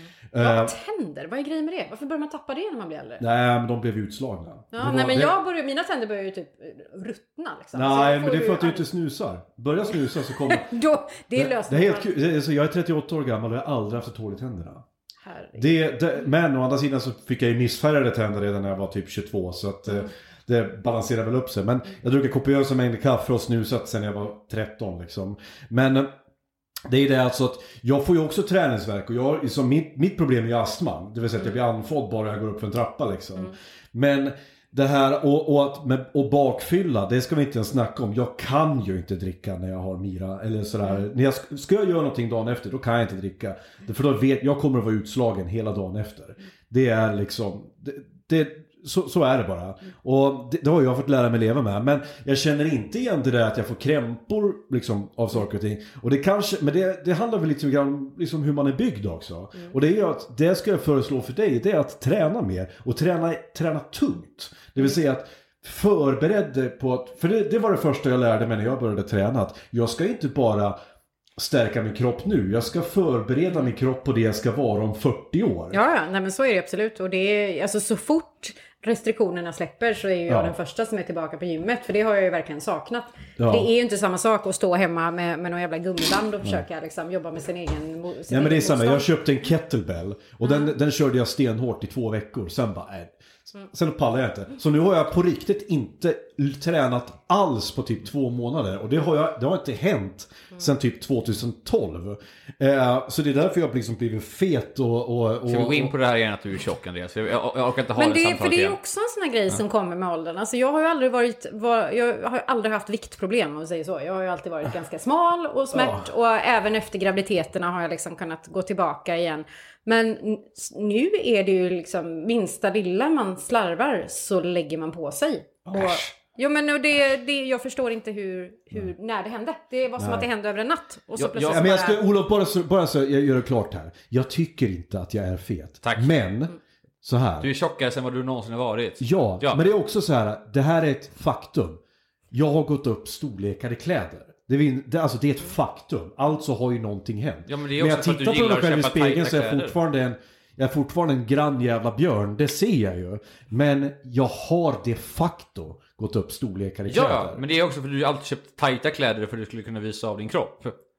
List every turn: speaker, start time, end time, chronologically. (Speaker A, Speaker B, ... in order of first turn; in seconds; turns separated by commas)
Speaker A: 0.3-0.7, Speaker B: 0.4-3.2, Speaker A: 3.2-5.3, Speaker B: 4.7-8.9, Speaker A: 7.7-10.7, Speaker B: 10.5-12.1, Speaker A: 11.3-14.8, Speaker B: 15.2-15.6, Speaker A: 15.6-26.1, Speaker A: 26.9-70.8, Speaker A: 71.4-75.8, Speaker B: 75.7-89.0, Speaker A: 80.3-80.5, Speaker A: 83.4-83.7, Speaker A: 88.3-105.9, Speaker B: 90.4-90.7, Speaker C: 105.5-108.8, Speaker B: 108.0-132.0, Speaker A: 115.7-116.0, Speaker C: 125.7-126.1, Speaker A: 130.0-130.3, Speaker C: 131.2-131.6, Speaker A: 131.4-137.5, Speaker C: 135.8-136.1, Speaker C: 137.4-139.6, Speaker A: 139.0-141.8, Speaker A: 142.3-157.4, Speaker C: 147.5-149.7, Speaker C: 156.9-160.8